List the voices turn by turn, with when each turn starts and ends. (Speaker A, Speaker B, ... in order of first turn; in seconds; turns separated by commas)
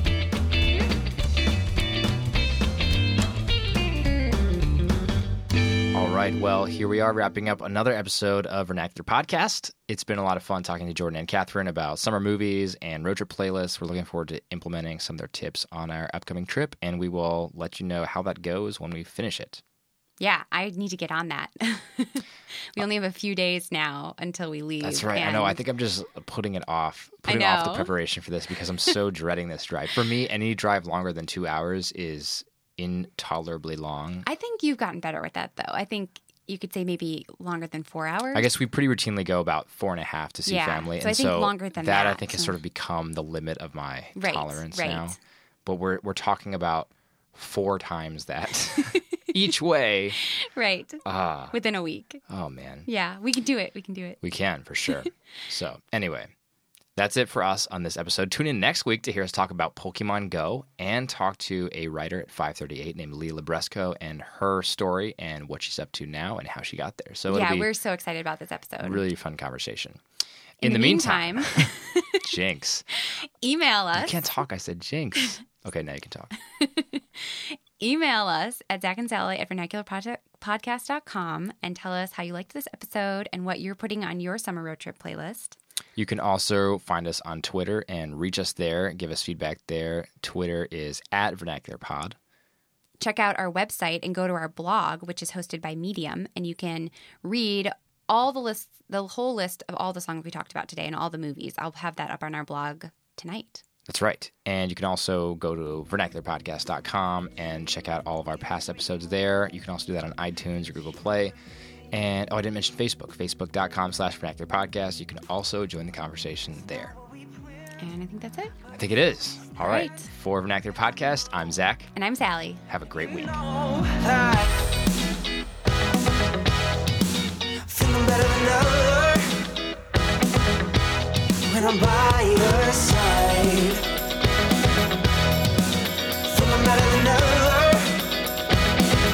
Speaker A: 5.9-19.6, Speaker B: 20.2-25.6, Speaker A: 24.8-34.3, Speaker B: 27.2-27.9, Speaker B: 34.2-38.5, Speaker A: 38.3-50.2, Speaker B: 40.5-42.6, Speaker B: 44.2-45.2, Speaker B: 50.2-52.2, Speaker A: 51.0-51.5, Speaker A: 52.3-52.9, Speaker B: 52.9-54.2, Speaker A: 54.2-56.3, Speaker A: 57.0-67.7, Speaker B: 67.3-69.0, Speaker A: 68.8-70.0, Speaker A: 70.6-71.7, Speaker B: 70.6-72.2, Speaker A: 72.2-72.8, Speaker B: 73.1-74.2, Speaker A: 74.0-76.3, Speaker B: 76.6-85.6, Speaker A: 86.0-92.2, Speaker B: 93.0-103.6, Speaker A: 103.9-111.3, Speaker A: 111.9-117.0, Speaker B: 117.8-118.5, Speaker A: 118.7-121.9, Speaker B: 119.6-120.1, Speaker B: 122.0-122.6, Speaker A: 122.7-123.4, Speaker C: 123.6-124.5, Speaker C: 127.7-129.3, Speaker C: 131.5-133.8, Speaker C: 136.2-138.0